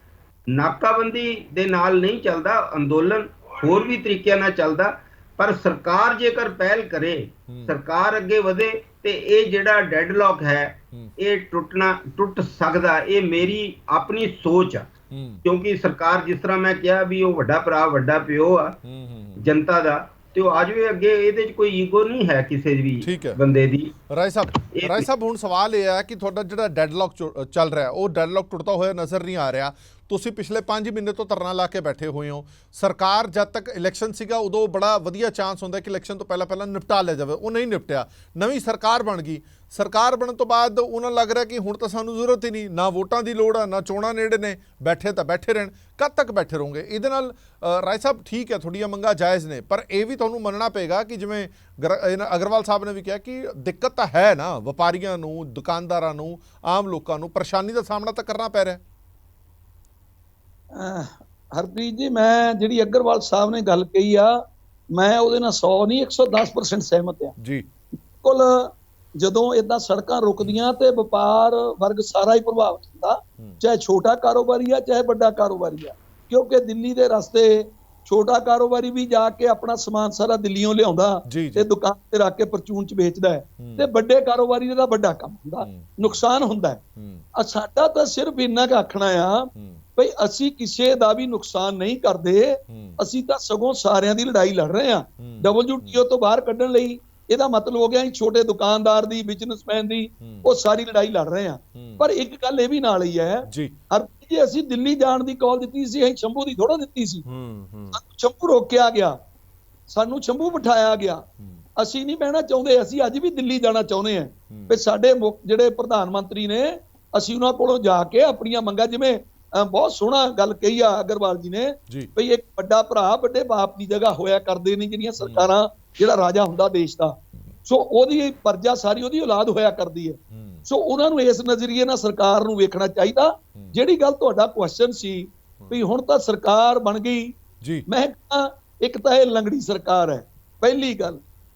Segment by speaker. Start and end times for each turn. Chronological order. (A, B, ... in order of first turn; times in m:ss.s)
0:00.5-0:14.9 A
0:07.5-0:07.7 B
0:15.1-0:15.4 B
0:15.4-0:18.8 A
0:18.8-0:19.4 B
0:19.4-0:23.9 A
0:23.0-0:23.4 B
0:24.1-0:58.8 B
0:24.7-0:25.1 A
1:00.7-1:07.4 C
1:07.4-1:07.7 B
1:08.0-1:26.8 C
1:21.3-1:21.7 B
1:23.6-1:23.9 B
1:25.6-1:26.2 B
1:27.0-1:27.2 B
1:27.4-1:47.3 C
1:29.6-1:29.8 B
1:32.7-1:33.0 B
1:35.2-1:36.0 B
1:40.2-1:40.5 B
1:41.8-1:42.0 B
1:43.4-1:43.8 B
1:47.3-1:48.0 B
1:47.9-1:49.2 C
1:49.9-1:51.2 C
1:51.8-2:21.2 C
1:54.5-1:54.8 B
2:05.2-2:05.5 B
2:10.3-2:10.6 B